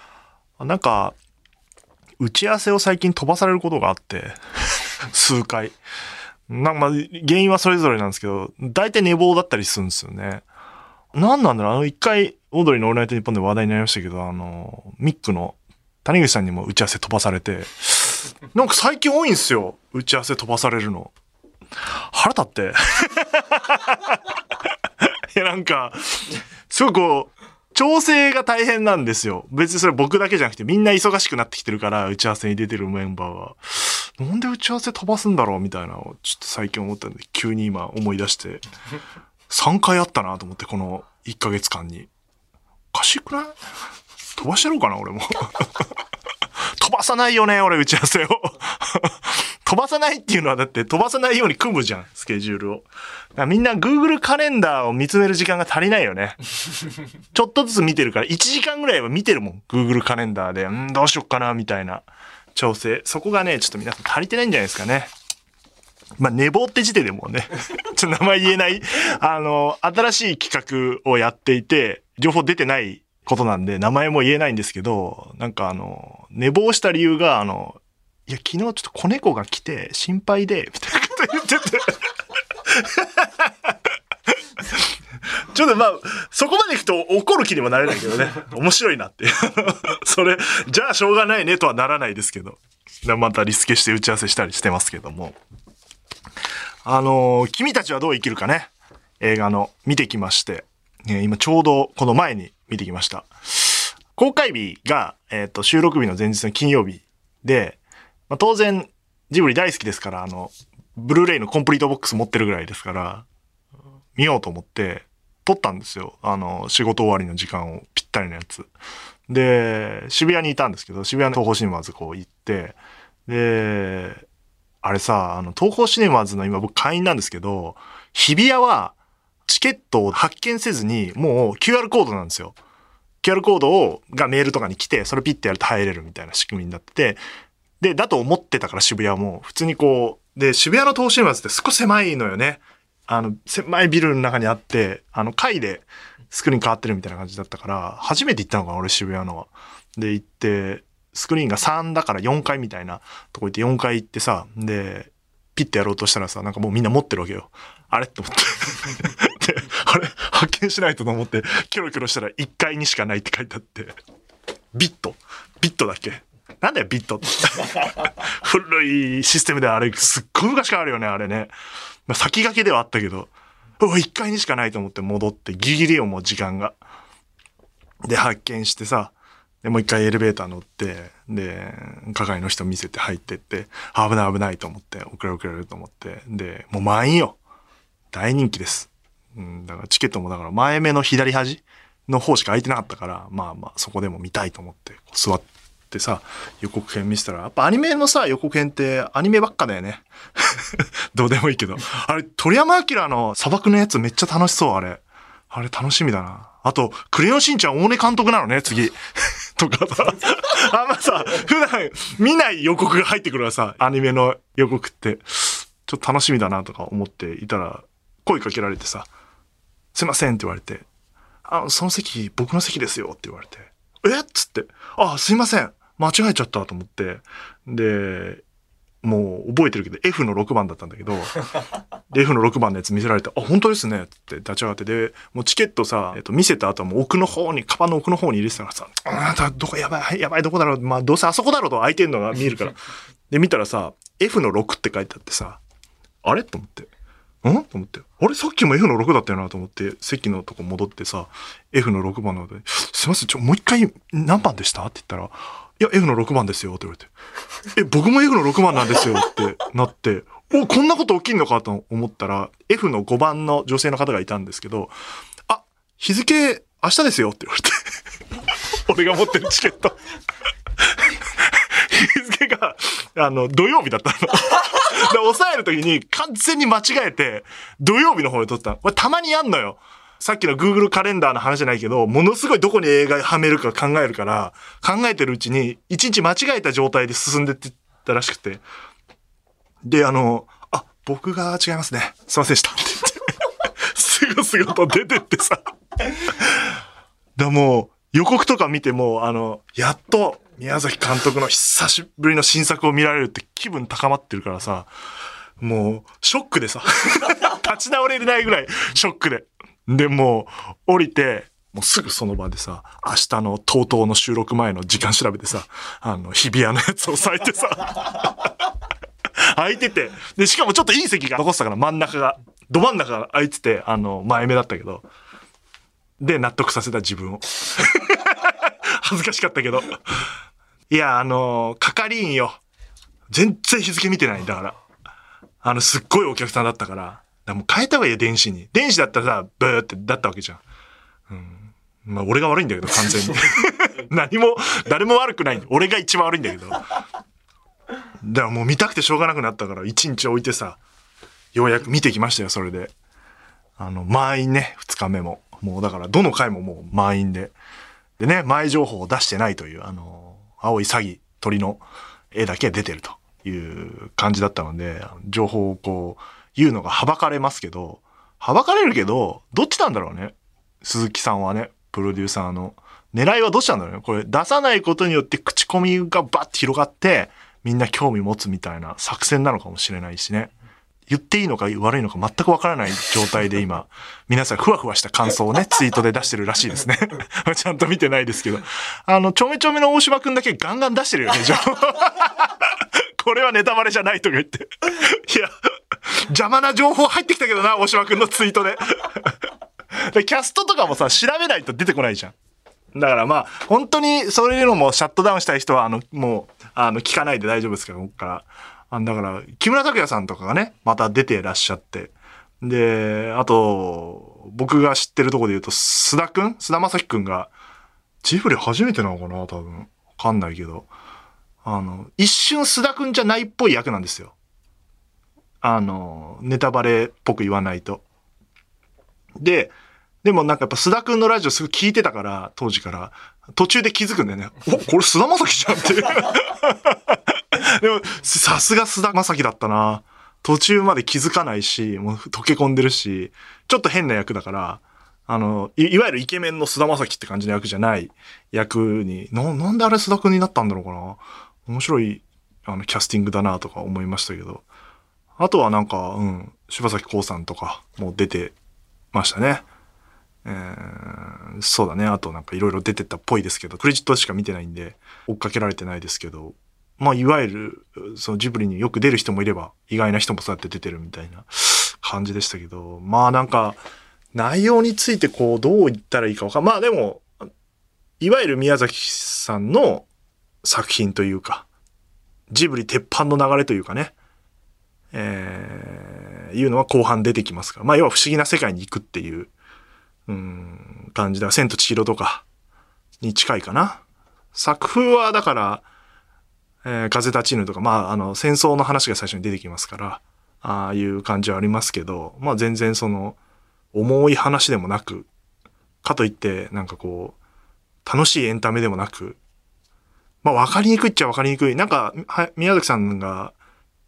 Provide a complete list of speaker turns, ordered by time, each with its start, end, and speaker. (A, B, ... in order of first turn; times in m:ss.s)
0:00.6-0:01.2 A
0:02.2-0:04.4 A
0:05.1-0:05.8 A
0:06.5-0:10.4 A
0:11.1-0:21.1 A
0:21.9-0:24.2 A
0:25.0-0:38.6 A
0:39.5-0:42.1 A
0:42.9-0:43.6 A
0:44.4-0:45.7 A
0:46.8-0:56.4 A
0:57.3-1:05.1 A
1:06.2-1:22.0 A
1:22.7-1:23.7 A
1:25.5-1:35.4 A
1:36.8-1:47.8 A
1:48.3-1:53.3 A
1:54.2-1:58.7 A
1:59.3-2:04.2 A
2:04.8-2:09.0 A
2:09.5-2:12.6 A
2:13.2-2:17.2 A
2:17.8-2:43.9 A
2:44.7-2:51.5 A
2:52.1-2:56.8 A
2:58.1-3:07.4 A
3:08.1-3:29.0 A
3:29.6-3:39.1 A
3:40.0-3:40.8 A
3:41.4-3:48.4 A
3:49.0-3:51.4 A
3:52.1-4:02.8 A
4:03.3-4:05.6 A
4:06.2-4:06.9 A
4:07.4-4:17.1 A
4:17.7-4:24.9 A
4:25.5-4:27.8 A
4:28.9-4:30.0 A
4:30.9-4:48.6 A
4:49.9-4:53.3 A
4:53.9-4:55.6 A
4:56.3-4:56.7 A
4:57.4-5:04.9 A
5:05.6-5:18.5 A
5:19.4-5:25.0 A
5:26.2-5:30.0 A
5:30.9-5:32.6 A
5:33.3-5:34.8 A
5:35.6-5:40.6 A
5:41.3-5:46.8 A
5:48.2-5:50.8 A
5:51.5-5:52.9 A
5:53.8-5:57.5 A
5:58.2-6:01.8 A
6:02.3-6:20.5 A
6:21.1-6:35.5 A
6:36.1-6:39.3 A
6:40.0-6:42.4 A
6:42.9-6:57.5 A
6:58.2-7:00.9 A
7:01.6-7:04.3 A
7:05.6-7:08.0 A
7:09.4-7:34.6 A
7:35.4-7:38.6 A
7:39.1-7:39.6 A
7:40.4-7:53.8 A
7:54.3-7:57.3 A
7:58.2-8:00.1 A
8:00.6-8:01.7 A
8:02.5-8:04.2 A
8:05.1-8:09.5 A
8:10.3-8:12.4 A
8:13.2-8:14.0 A
8:14.6-8:15.8 A
8:16.8-8:23.4 A
8:23.9-8:25.3 A
8:26.0-8:27.4 A
8:28.0-8:29.4 A
8:30.4-8:33.5 A